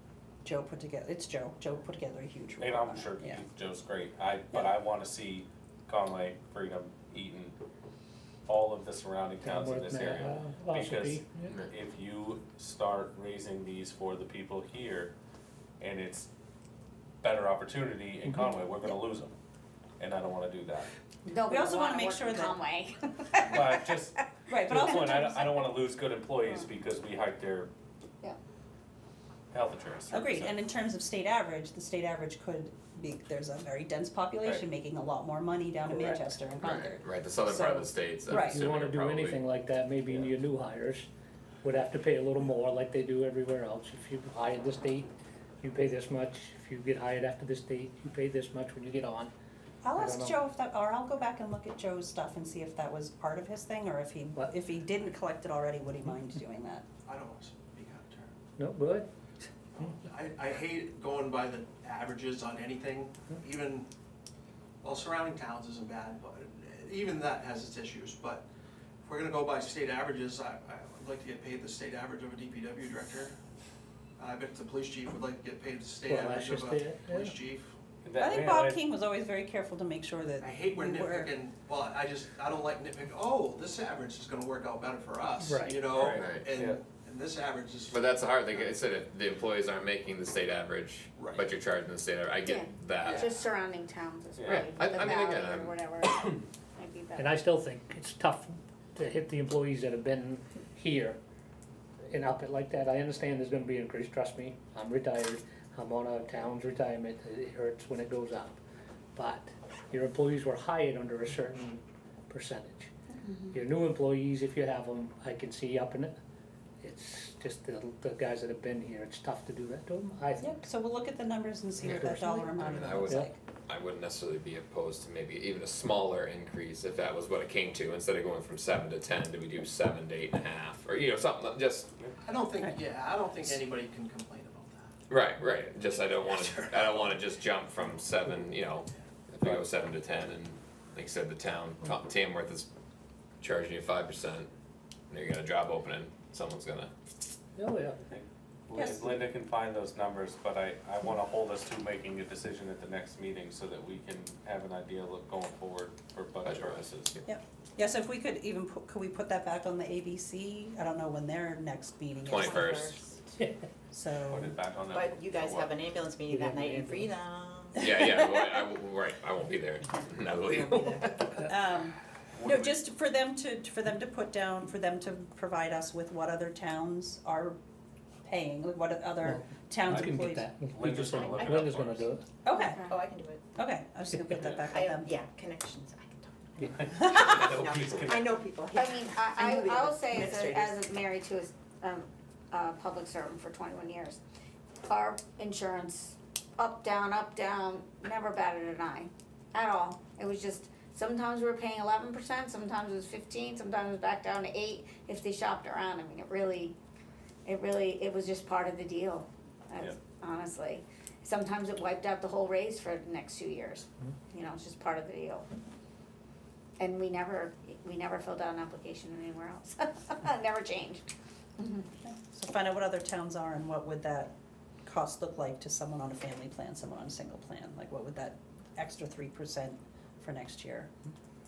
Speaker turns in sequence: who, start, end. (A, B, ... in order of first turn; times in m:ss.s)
0:00.4-0:03.5 A
0:02.6-0:07.6 B
0:08.5-0:15.1 B
0:09.4-0:11.6 C
0:15.8-0:16.3 B
0:17.2-0:19.3 B
0:20.0-0:20.9 B
0:21.3-0:24.2 D
0:21.5-0:22.6 A
0:23.4-0:27.7 B
0:24.5-0:25.5 A
0:29.5-0:30.6 B
0:30.1-0:38.6 A
0:35.9-0:39.4 E
0:38.5-0:41.1 C
0:41.6-0:45.1 C
0:45.6-0:49.3 C
0:49.8-0:56.9 A
0:50.0-0:50.4 C
0:57.1-0:58.3 F
0:58.6-0:59.1 C
0:59.9-1:03.9 F
1:04.8-1:08.5 F
1:09.0-1:13.4 F
1:14.2-1:17.7 F
1:16.0-1:17.4 C
1:18.0-1:18.8 B
1:18.1-1:21.4 A
1:20.4-1:28.0 F
1:25.4-1:25.9 C
1:25.9-1:26.8 B
1:26.1-1:26.5 E
1:27.9-1:33.4 E
1:31.2-1:31.4 F
1:32.4-1:37.3 D
1:34.4-1:34.7 B
1:34.5-1:35.9 E
1:37.2-1:41.2 C
1:42.1-1:48.6 C
1:49.2-1:52.9 C
1:53.2-1:53.6 D
1:53.5-1:56.1 C
1:56.8-2:00.6 C
2:00.4-2:03.4 A
2:01.8-2:02.4 C
2:01.8-2:11.9 E
2:12.2-2:14.9 F
2:15.1-2:22.7 E
2:16.0-2:17.1 F
2:23.4-2:24.5 E
2:25.1-2:26.9 E
2:27.6-2:28.0 C
2:28.1-2:37.2 B
2:28.7-2:29.0 A
2:36.4-2:37.2 E
2:37.2-2:42.9 A
2:42.3-2:43.0 E
2:42.3-2:43.3 G
2:43.9-2:44.6 A
2:44.3-2:45.7 B
2:44.9-2:47.9 G
2:46.3-2:47.1 C
2:47.8-2:51.4 E
2:47.9-2:48.6 A
2:49.8-2:51.4 G
2:51.5-2:57.6 A
2:52.3-2:52.8 B
2:58.3-3:00.5 A
2:59.3-3:02.3 C
2:59.9-3:02.1 B
3:02.4-3:02.8 A
3:02.5-3:03.0 D
3:02.7-3:03.5 G
3:03.6-3:05.1 A
3:04.6-3:10.8 G
3:07.2-3:08.2 B
3:08.8-3:14.2 D
3:14.8-3:26.8 D
3:27.4-3:35.4 D
3:36.8-3:41.1 D
3:41.6-3:41.9 D
3:42.0-3:44.3 A
3:44.8-3:50.9 A